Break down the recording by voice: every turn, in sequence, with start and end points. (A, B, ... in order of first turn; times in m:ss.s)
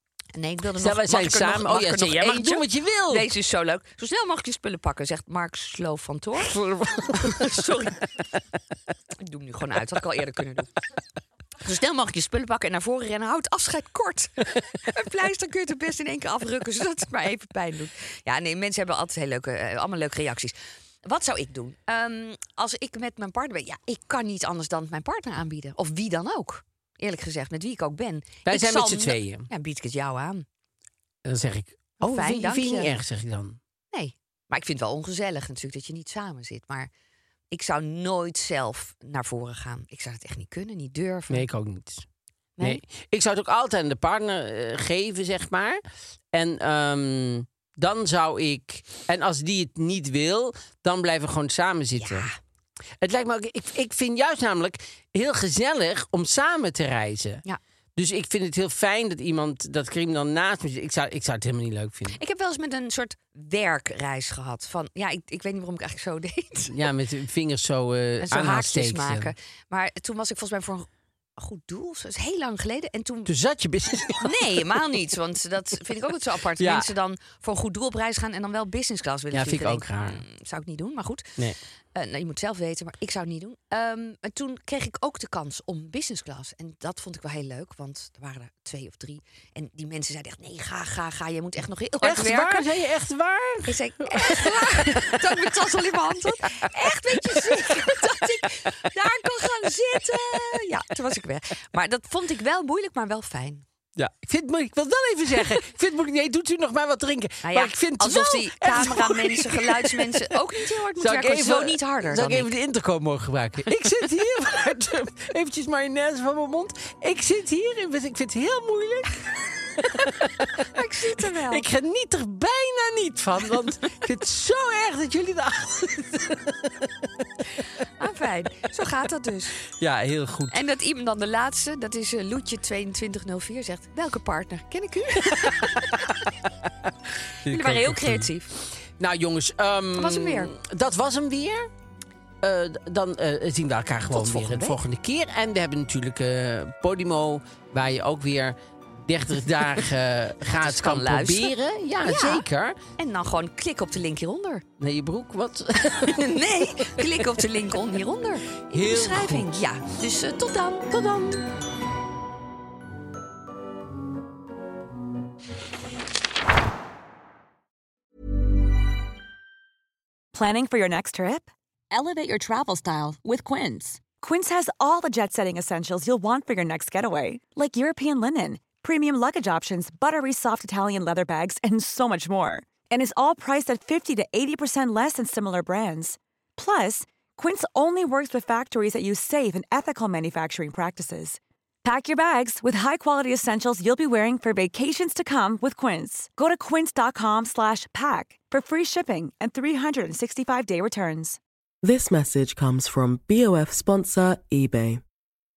0:00.3-0:06.6 A
0:00.7-0:03.3 B
0:06.4-0:07.8 B
0:07.1-0:08.0 A
0:09.2-0:10.7 A
0:11.6-0:30.4 A
0:28.4-0:29.5 B
0:31.2-0:33.6 B
0:32.0-0:33.0 A
0:33.9-0:36.9 A
0:37.5-0:41.5 A
0:41.3-0:42.1 B
0:42.6-0:45.8 B
0:46.3-0:52.3 B
0:52.0-0:52.4 A
0:53.0-0:57.4 B
0:58.0-1:02.2 B
1:02.1-1:06.8 A
1:06.7-1:09.3 B
1:08.2-1:13.3 A
1:13.2-1:14.9 B
1:14.2-1:21.4 A
1:16.6-1:16.9 B
1:19.3-1:20.2 B
1:21.9-1:32.6 A
1:32.0-1:35.6 B
1:33.6-1:43.6 A
1:36.6-1:38.1 B
1:40.1-1:40.6 B
1:44.0-2:07.1 B
1:47.4-1:52.5 A
1:59.9-2:01.7 A
2:07.8-2:09.6 A
2:09.7-2:10.6 B
2:10.5-2:16.1 A
2:15.4-2:21.7 B
2:17.4-2:18.5 A
2:19.9-2:20.5 A
2:22.4-2:32.8 B
2:24.1-2:24.8 A
2:30.5-2:32.4 A
2:33.0-2:34.6 A
2:34.8-2:37.4 B
2:36.1-2:41.3 A
2:38.7-2:39.6 B
2:40.9-2:41.4 B
2:50.3-2:51.5 C
2:51.9-2:54.0 A
2:54.0-3:21.4 C
3:21.8-3:25.0 D